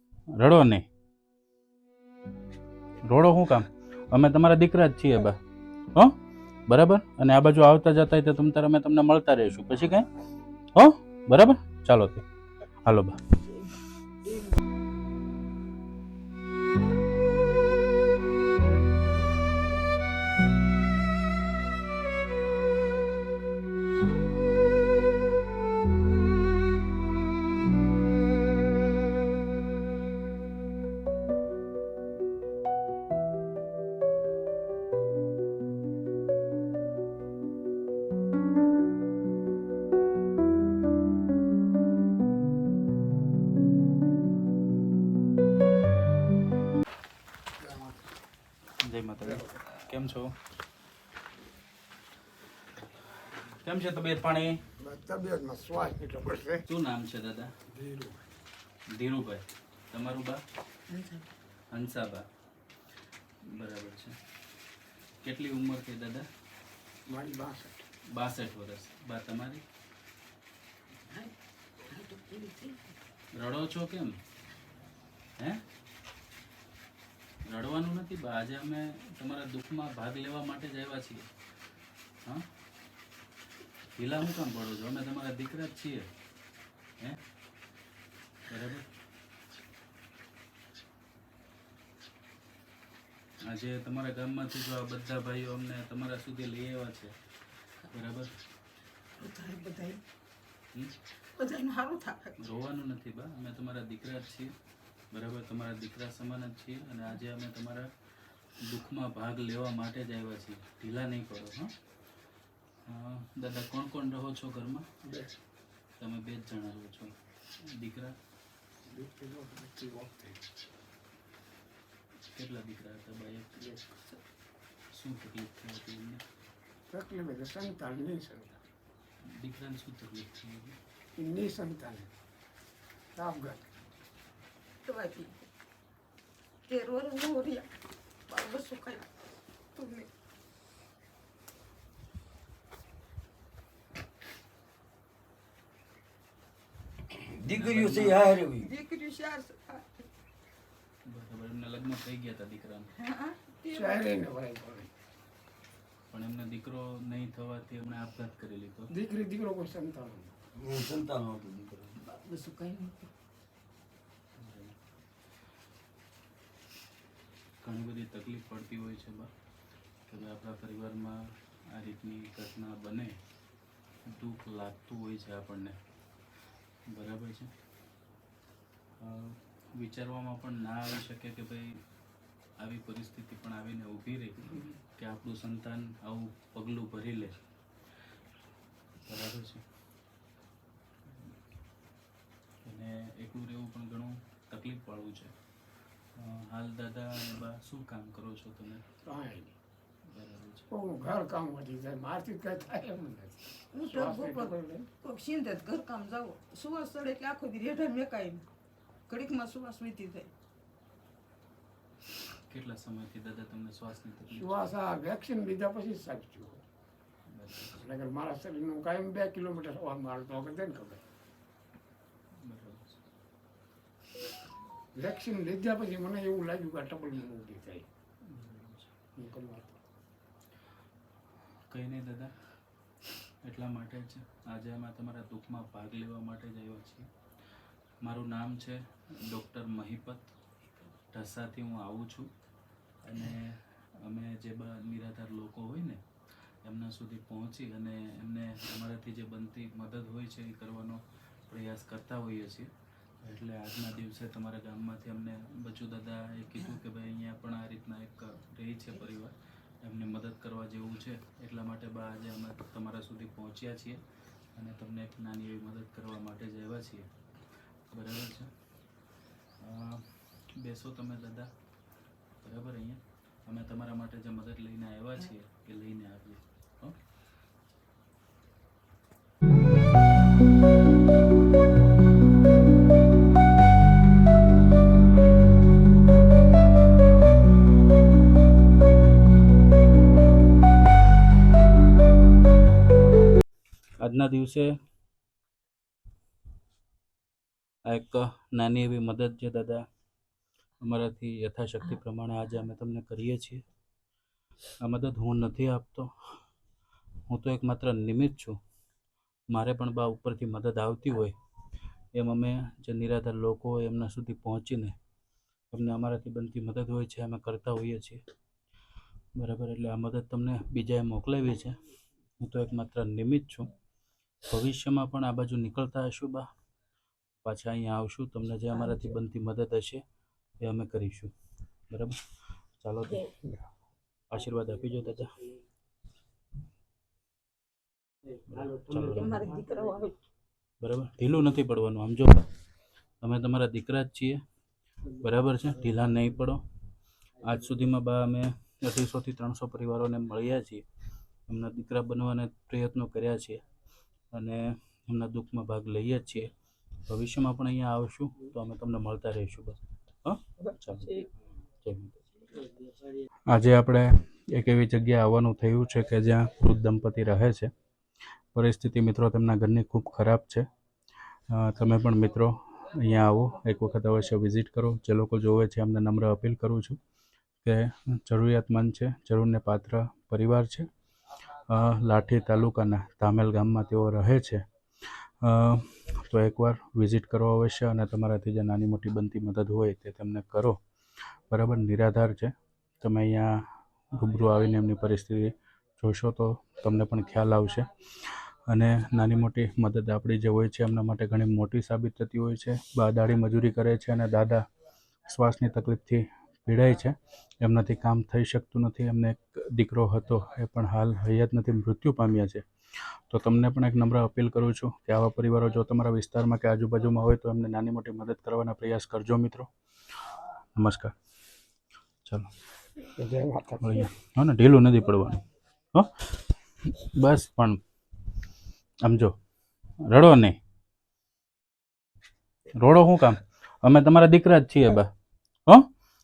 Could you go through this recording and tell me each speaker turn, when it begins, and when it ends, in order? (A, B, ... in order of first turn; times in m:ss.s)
0:00.3-0:00.8 A
0:03.0-0:05.4 A
0:06.7-0:10.1 A
0:10.7-0:12.2 A
0:12.8-0:13.3 A
0:47.6-0:48.0 B
0:48.8-0:50.4 A
0:49.2-0:49.6 B
0:53.3-0:54.6 A
0:54.8-0:56.6 B
0:56.6-0:57.5 A
0:57.7-0:58.3 B
0:58.9-1:00.4 A
1:00.9-1:01.3 C
1:01.7-1:02.3 A
1:03.4-1:04.2 A
1:05.2-1:06.3 A
1:07.1-1:07.8 B
1:08.1-1:09.6 A
1:11.1-1:11.3 C
1:11.8-1:12.9 C
1:13.3-1:14.2 A
1:15.4-1:15.6 A
1:17.4-1:21.2 A
1:24.0-1:26.1 A
1:28.5-1:28.9 A
1:33.4-1:37.1 A
1:37.8-1:38.3 A
1:39.2-1:40.0 C
1:41.4-1:42.4 C
1:42.4-1:44.5 A
1:45.1-1:47.9 A
1:48.6-1:51.7 A
1:52.8-1:54.9 A
1:55.0-1:55.3 B
1:56.0-1:58.2 A
1:58.9-2:00.4 B
2:02.3-2:03.8 A
2:03.6-2:03.9 B
2:04.9-2:06.2 A
2:06.9-2:08.6 B
2:09.2-2:10.8 A
2:11.2-2:12.1 B
2:13.1-2:13.7 B
2:14.8-2:15.5 C
2:16.7-2:17.8 C
2:18.3-2:19.1 C
2:19.7-2:20.1 C
2:27.1-2:28.7 D
2:27.5-2:28.3 A
2:28.5-2:30.0 C
2:31.0-2:32.9 A
2:33.0-2:34.1 C
2:33.7-2:34.9 B
2:36.1-2:38.9 A
2:38.9-2:40.4 B
2:40.6-2:42.0 D
2:42.0-2:43.1 C
2:44.4-2:44.7 A
2:47.6-2:49.3 A
2:50.1-2:53.2 A
2:54.0-2:55.8 A
2:56.9-2:57.5 A
2:59.0-3:01.8 A
3:02.6-3:07.4 A
3:09.0-3:09.6 A
3:12.6-3:15.3 A
3:16.1-3:18.8 A
3:19.0-3:19.6 B
3:20.0-3:20.7 A
3:20.7-3:24.9 B
3:23.7-3:28.4 C
3:29.1-3:30.3 C
3:32.3-3:34.7 A
3:34.3-3:36.6 B
3:37.3-3:37.8 A
3:37.8-3:41.0 B
3:42.4-3:43.0 A
3:44.9-3:47.9 B
3:48.3-3:48.9 A
3:49.2-3:49.8 B
3:51.7-3:52.4 A
3:53.4-3:57.1 A
3:58.0-4:00.3 A
4:01.1-4:02.3 A
4:03.0-4:24.0 A
4:24.5-4:27.1 A
4:27.8-4:28.5 A
4:29.6-4:31.5 A
4:32.4-4:37.0 A
4:54.0-4:54.8 A
4:57.8-4:59.8 A
5:00.8-5:03.6 A
5:04.8-5:06.4 A
5:07.3-5:08.6 A
5:09.5-5:11.4 A
5:12.1-5:15.0 A
5:15.7-5:18.2 A
5:19.3-5:21.8 A
5:22.4-5:23.7 A
5:24.4-5:26.5 A
5:27.4-5:30.0 A
5:30.6-5:31.3 A
5:31.9-5:32.2 A
5:32.8-5:33.3 A
5:34.3-5:35.3 A
5:38.5-5:39.4 A
5:39.1-5:40.2 C
5:40.8-5:42.4 A
5:43.2-5:44.4 A
5:45.1-5:46.6 A
5:47.4-5:50.8 A
5:51.5-5:53.6 A
5:54.3-5:56.5 A
5:57.0-6:01.3 A
6:01.8-6:02.2 A
6:03.5-6:07.7 A
6:08.5-6:10.7 A
6:11.5-6:17.0 A
6:17.6-6:20.9 A
6:21.7-6:30.8 A
6:31.5-6:44.6 A
6:45.2-6:59.7 A
7:00.8-7:01.1 A
7:02.2-7:02.5 A
7:03.2-7:04.1 B
7:03.8-7:05.4 A
7:05.9-7:07.8 A
7:09.0-7:09.3 A
7:10.0-7:10.6 A
7:12.7-7:15.1 A